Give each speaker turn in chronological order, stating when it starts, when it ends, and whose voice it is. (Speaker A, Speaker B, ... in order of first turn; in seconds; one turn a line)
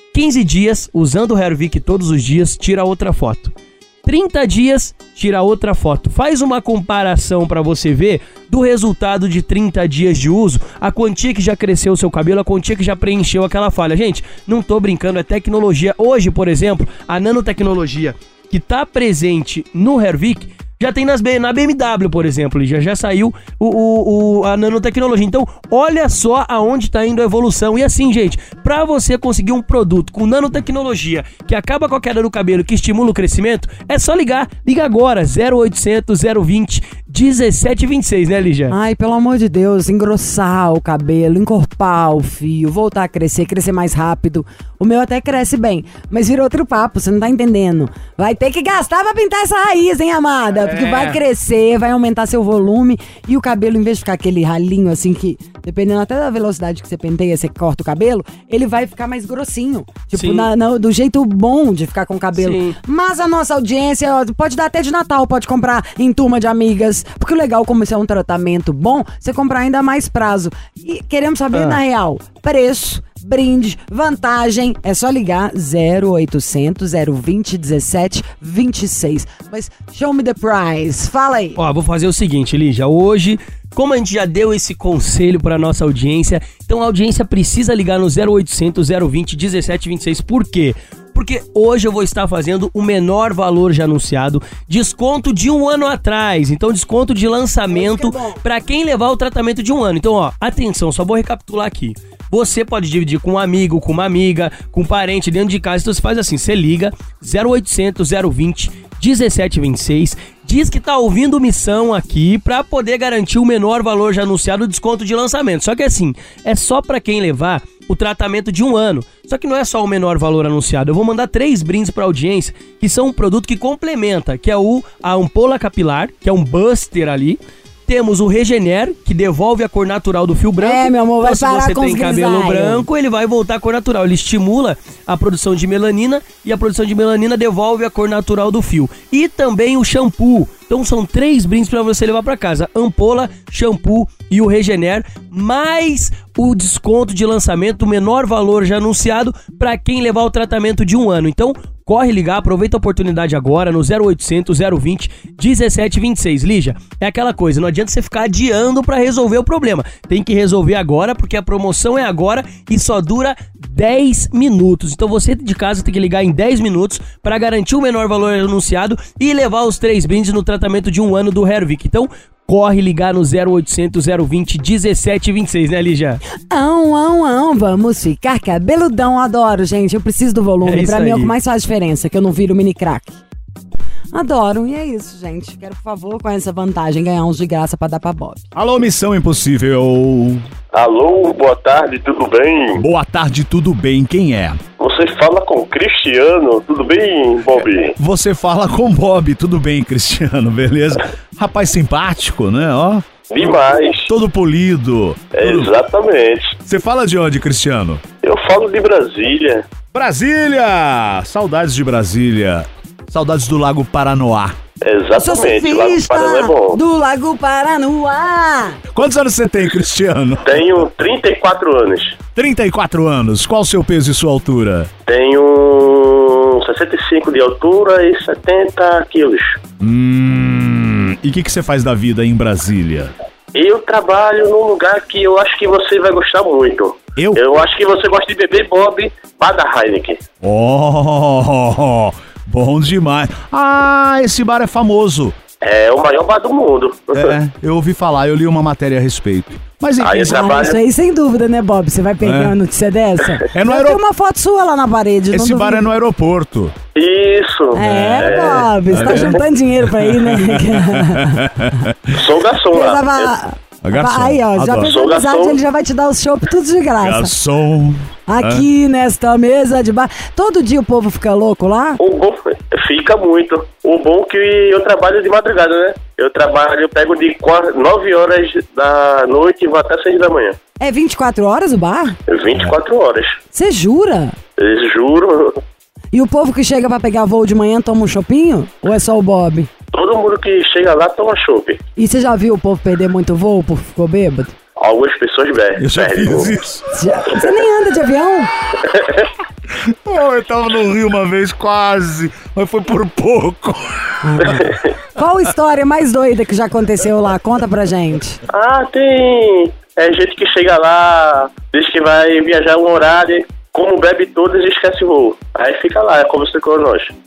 Speaker A: 0.1-3.5
Speaker A: 4.0-38.8
Speaker B: 38.7-81.6
Speaker A: 50.7-51.1
Speaker A: 60.1-60.5
Speaker A: 62.4-62.8
Speaker A: 71.5-71.8
Speaker A: 81.6-176.2
Speaker B: 97.7-98.4
Speaker B: 130.6-132.8
Speaker B: 176.5-183.2
Speaker A: 180.7-181.3
Speaker B: 184.1-188.4
Speaker C: 188.5-190.4
Speaker D: 190.7-192.8
Speaker C: 192.8-194.6
Speaker D: 194.8-197.9
Speaker C: 198.0-205.7
Speaker D: 203.3-204.1
Speaker D: 205.4-206.6
Speaker C: 206.7-208.0
Speaker D: 208.2-209.6
Speaker C: 209.9-214.6
Speaker D: 214.8-216.8
Speaker B: 215.2-218.8
Speaker C: 218.9-220.8
Speaker D: 220.4-222.2
Speaker C: 222.4-224.9
Speaker D: 225.1-229.6
Speaker C: 229.8-233.1
Speaker D: 233.5-240.2
Speaker C: 237.2-237.5
Speaker C: 240.4-245.3
Speaker D: 245.6-247.3
Speaker C: 247.1-250.5
Speaker D: 250.0-250.8
Speaker B: 250.3-255.9
Speaker C: 252.2-252.6
Speaker C: 253.5-254.0
Speaker C: 255.3-256.8
Speaker D: 257.0-259.3
Speaker B: 257.8-261.5
Speaker C: 257.8-262.2
Speaker D: 262.1-263.3
Speaker B: 262.7-267.3
Speaker C: 263.8-264.9
Speaker D: 264.8-265.6
Speaker C: 267.0-268.7
Speaker B: 268.3-272.0
Speaker D: 272.0-280.6
Speaker B: 280.8-282.2
Speaker D: 282.3-283.4
Speaker B: 283.5-284.4
Speaker D: 284.6-285.6
Speaker B: 286.1-289.7
Speaker D: 289.9-291.8
Speaker B: 292.0-294.5
Speaker D: 294.8-296.5
Speaker C: 295.8-296.8
Speaker B: 296.9-298.5
Speaker D: 298.8-299.2
Speaker C: 299.7-304.6
Speaker B: 304.2-308.4
Speaker D: 304.6-304.9
Speaker D: 308.5-317.1